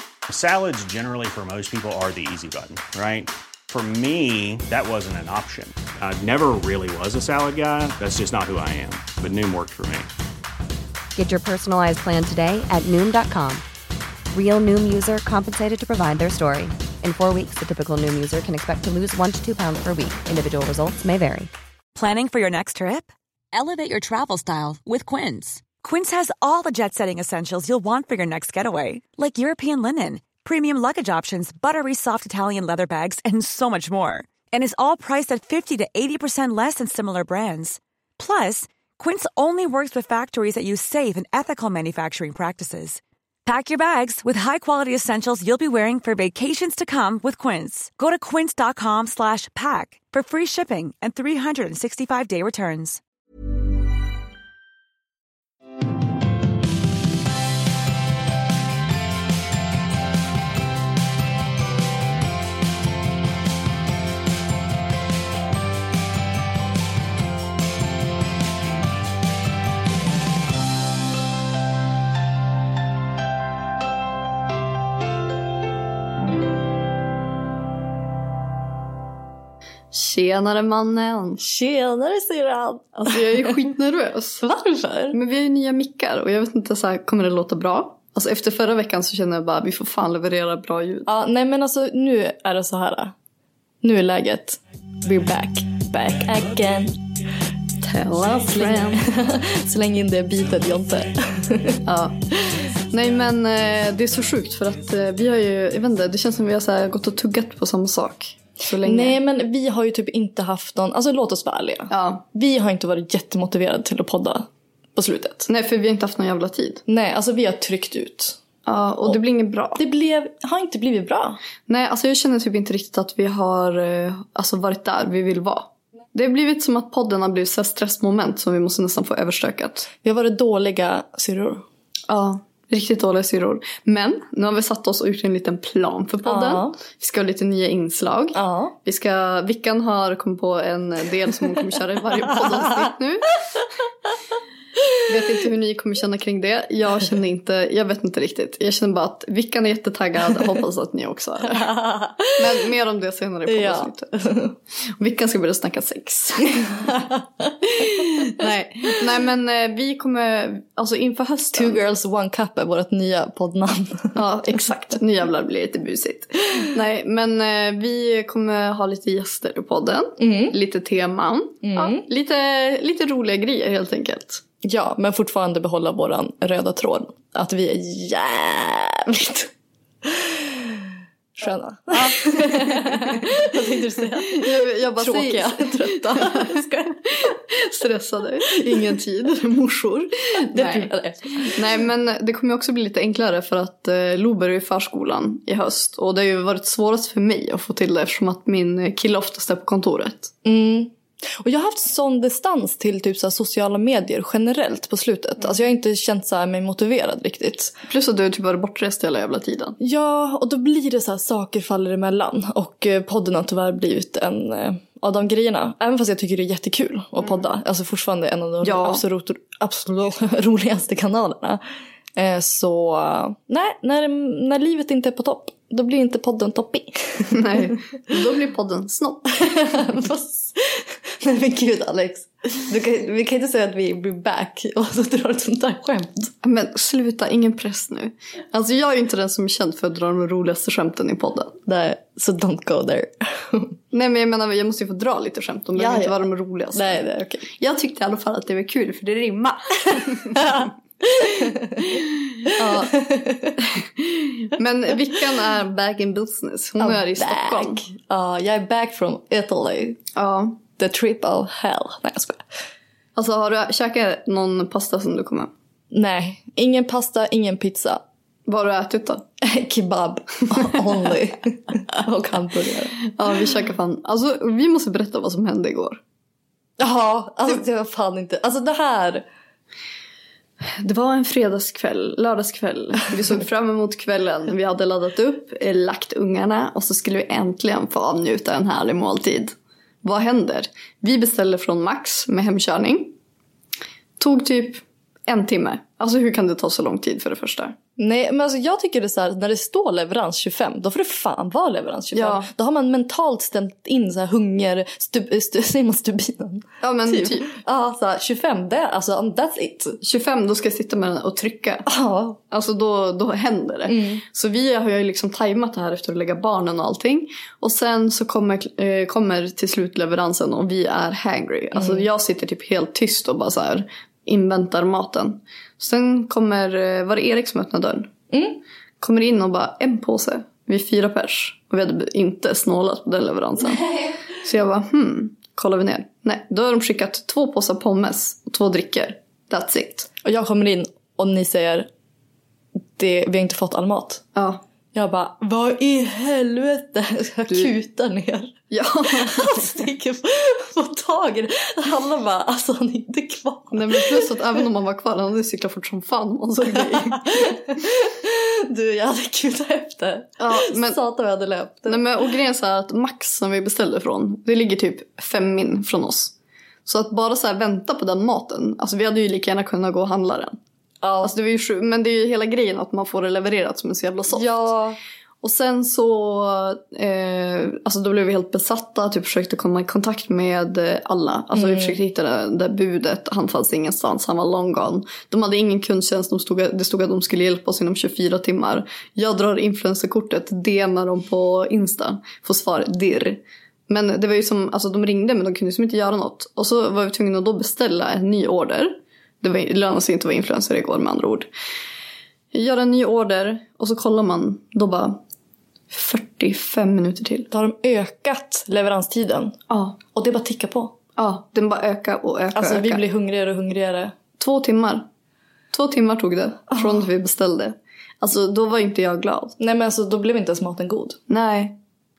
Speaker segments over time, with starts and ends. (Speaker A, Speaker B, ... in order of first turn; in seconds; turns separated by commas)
Speaker A: 0.3-10.1, Speaker B: 11.2-13.7, Speaker B: 14.3-21.5, Speaker C: 21.9-53.0, Speaker D: 79.9-81.4, Speaker E: 81.4-83.6, Speaker D: 83.0-84.4, Speaker E: 84.4-85.2, Speaker D: 85.1-91.1, Speaker E: 91.1-93.1, Speaker E: 93.8-97.0, Speaker D: 97.8-99.1, Speaker E: 98.5-101.8, Speaker D: 101.8-102.2, Speaker D: 102.9-109.2, Speaker E: 108.8-115.5, Speaker D: 111.9-112.2, Speaker D: 115.5-116.8, Speaker E: 116.9-118.4, Speaker D: 118.7-119.8, Speaker E: 119.8-121.4, Speaker D: 121.7-129.9, Speaker E: 130.0-131.6, Speaker D: 132.1-143.3, Speaker E: 136.2-136.8, Speaker E: 138.3-138.8, Speaker E: 142.2-142.9, Speaker E: 144.8-145.3, Speaker D: 145.1-151.7, Speaker E: 151.5-152.4, Speaker D: 152.3-154.1, Speaker E: 153.5-154.6, Speaker D: 155.0-156.7, Speaker E: 156.6-158.4, Speaker D: 157.7-161.8, Speaker E: 161.5-164.2, Speaker D: 164.2-174.4, Speaker E: 170.2-170.6, Speaker E: 171.6-172.1, Speaker E: 174.6-179.5, Speaker E: 180.0-186.9, Speaker D: 181.9-183.3, Speaker D: 184.3-190.9, Speaker E: 188.5-189.0, Speaker E: 189.8-191.7, Speaker D: 191.5-200.3, Speaker E: 200.4-207.8, Speaker D: 207.9-209.8, Speaker E: 209.8-221.6, Speaker D: 218.6-219.0, Speaker E: 222.2-228.2, Speaker D: 227.3-229.3, Speaker E: 229.3-236.3, Speaker D: 236.4-241.6, Speaker E: 241.7-243.8, Speaker D: 243.9-250.6, Speaker E: 245.8-247.5, Speaker E: 250.3-253.6, Speaker D: 252.6-252.9, Speaker D: 253.7-257.9, Speaker E: 256.8-260.0, Speaker D: 260.2-260.6, Speaker E: 260.8-262.4, Speaker D: 263.2-265.5, Speaker E: 265.9-268.0, Speaker D: 268.5-269.2, Speaker E: 269.4-273.0, Speaker D: 273.1-276.0, Speaker E: 276.8-279.2, Speaker D: 280.8-293.1, Speaker D: 294.2-297.8, Speaker E: 298.0-310.0, Speaker D: 302.1-302.5, Speaker D: 306.8-307.6, Speaker D: 310.0-311.9, Speaker E: 311.9-312.4, Speaker D: 312.5-328.1, Speaker E: 313.9-314.2, Speaker E: 321.8-322.1, Speaker E: 328.3-328.6, Speaker D: 329.0-333.9, Speaker E: 333.6-334.2, Speaker D: 334.4-340.1, Speaker E: 340.2-341.9, Speaker E: 343.0-344.2, Speaker D: 344.4-344.6, Speaker E: 344.9-354.3, Speaker D: 348.7-349.9, Speaker D: 353.7-357.6, Speaker E: 356.6-362.1, Speaker D: 360.4-361.0, Speaker D: 361.9-366.3, Speaker D: 366.9-370.6, Speaker E: 371.0-371.3, Speaker D: 371.2-374.7, Speaker E: 374.3-375.0, Speaker D: 375.4-401.5, Speaker E: 381.5-382.0, Speaker D: 402.5-405.2, Speaker D: 405.9-407.5, Speaker E: 407.5-409.6, Speaker D: 409.7-410.0, Speaker E: 410.1-410.9, Speaker D: 411.2-413.0, Speaker E: 412.5-414.1, Speaker D: 414.4-415.1, Speaker D: 415.7-419.6, Speaker E: 416.7-417.1, Speaker E: 419.6-421.2, Speaker D: 421.3-421.8